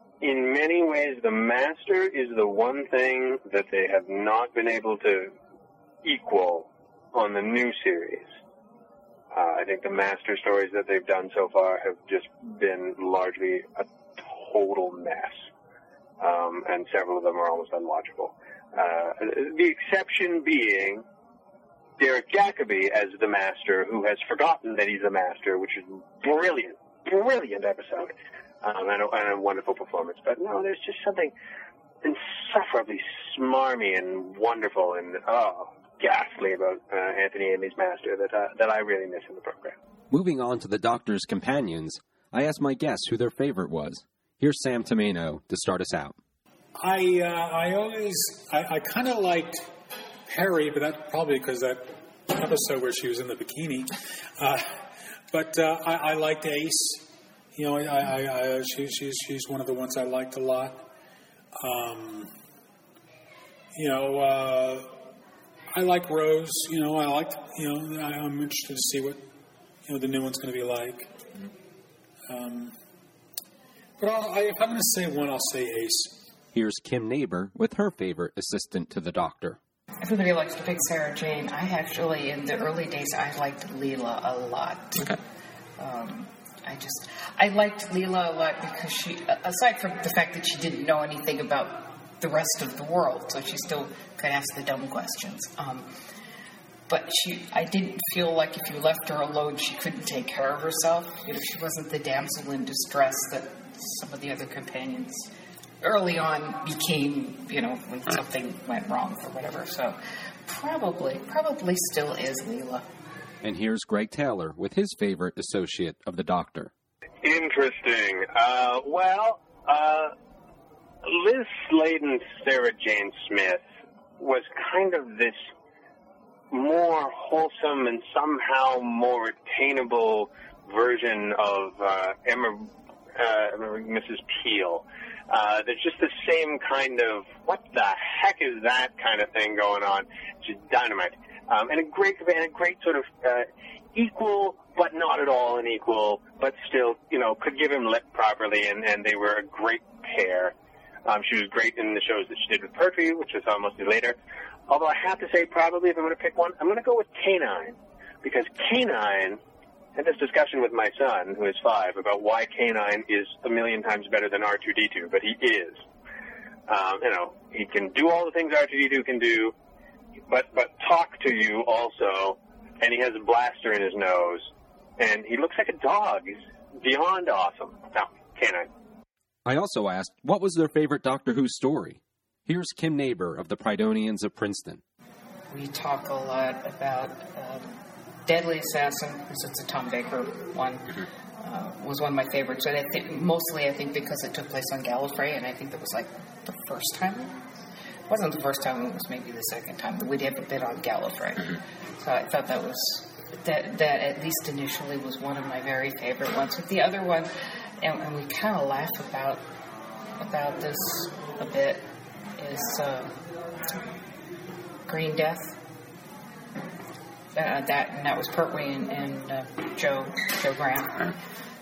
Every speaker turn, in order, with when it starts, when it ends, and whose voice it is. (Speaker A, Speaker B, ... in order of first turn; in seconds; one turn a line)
Speaker A: 0.2-5.3
Speaker A: 6.0-8.3
Speaker A: 9.3-15.4
Speaker A: 16.2-21.0
Speaker A: 22.0-31.3
Speaker A: 32.0-39.7
Speaker B: 40.1-46.2
Speaker C: 46.8-49.7
Speaker C: 50.3-54.8
Speaker C: 55.3-60.9
Speaker C: 61.5-62.3
Speaker C: 63.7-64.9
Speaker C: 65.7-69.2
Speaker C: 69.8-71.1
Speaker C: 72.3-72.7
Speaker C: 74.0-76.2
Speaker B: 76.5-79.6
Speaker D: 80.0-85.2
Speaker D: 85.8-95.9
Speaker D: 96.9-105.3
Speaker D: 105.8-112.9
Speaker B: 113.4-116.7
Speaker A: 117.2-120.1
Speaker A: 121.0-123.6
Speaker A: 124.2-125.4
Speaker A: 126.5-150.5
Speaker A: 151.0-154.2
Speaker A: 154.7-159.4
Speaker A: 159.9-165.8
Speaker A: 166.7-169.5
Speaker A: 170.3-178.7
Speaker B: 179.4-184.8
Speaker D: 185.5-187.7
Speaker D: 188.2-197.4
Speaker D: 198.1-209.4
Speaker D: 210.2-211.9
Speaker D: 212.4-213.2
Speaker D: 214.8-215.6
Speaker D: 217.3-221.1